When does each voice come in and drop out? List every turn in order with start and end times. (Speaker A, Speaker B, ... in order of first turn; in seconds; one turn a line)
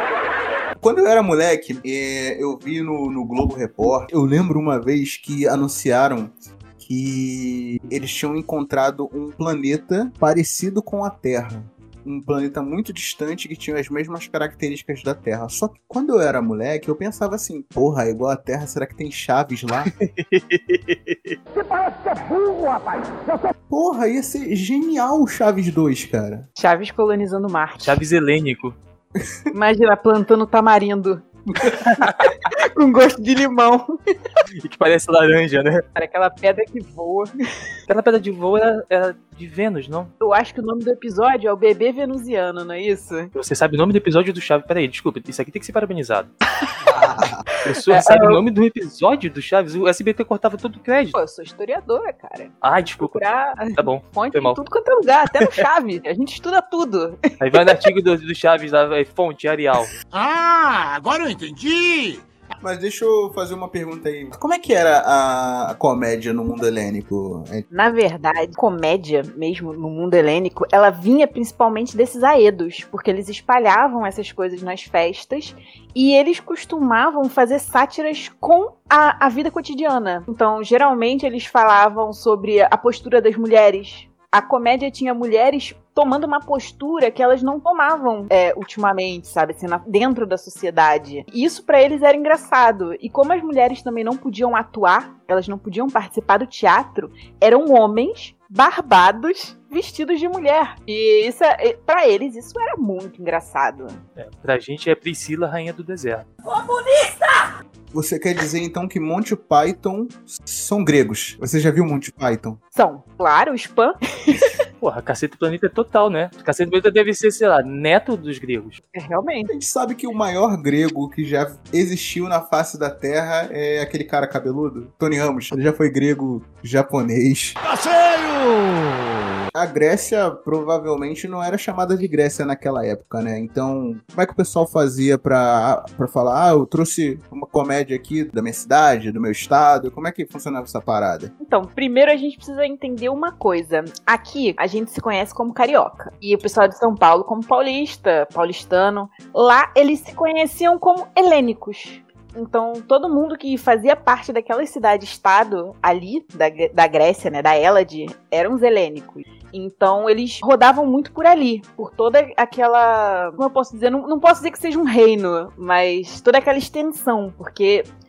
Speaker A: 0.8-19.9
Speaker B: 19.9-21.4
Speaker A: 23.7-26.5
Speaker C: 26.6-28.0
Speaker B: 27.8-28.8
Speaker C: 29.5-31.2
Speaker A: 31.5-31.8
Speaker B: 31.9-32.3
Speaker C: 32.4-33.9
Speaker B: 34.6-35.8
Speaker C: 36.0-37.3
Speaker B: 37.9-40.1
Speaker C: 40.2-43.3
Speaker B: 43.4-46.3
Speaker A: 46.9-47.4
Speaker B: 47.6-51.2
Speaker C: 47.9-48.4
Speaker C: 51.1-57.8
Speaker B: 52.6-53.2
Speaker B: 53.7-54.6
Speaker B: 57.4-59.9
Speaker D: 60.1-62.2
Speaker A: 62.6-67.7
Speaker C: 67.7-104.0
Speaker B: 104.2-106.3
Speaker A: 107.9-112.6
Speaker C: 112.7-114.5
Speaker B: 114.8-118.8
Speaker C: 118.9-119.5
Speaker A: 119.5-127.6
Speaker D: 128.0-128.4
Speaker A: 129.5-141.3
Speaker C: 141.4-167.9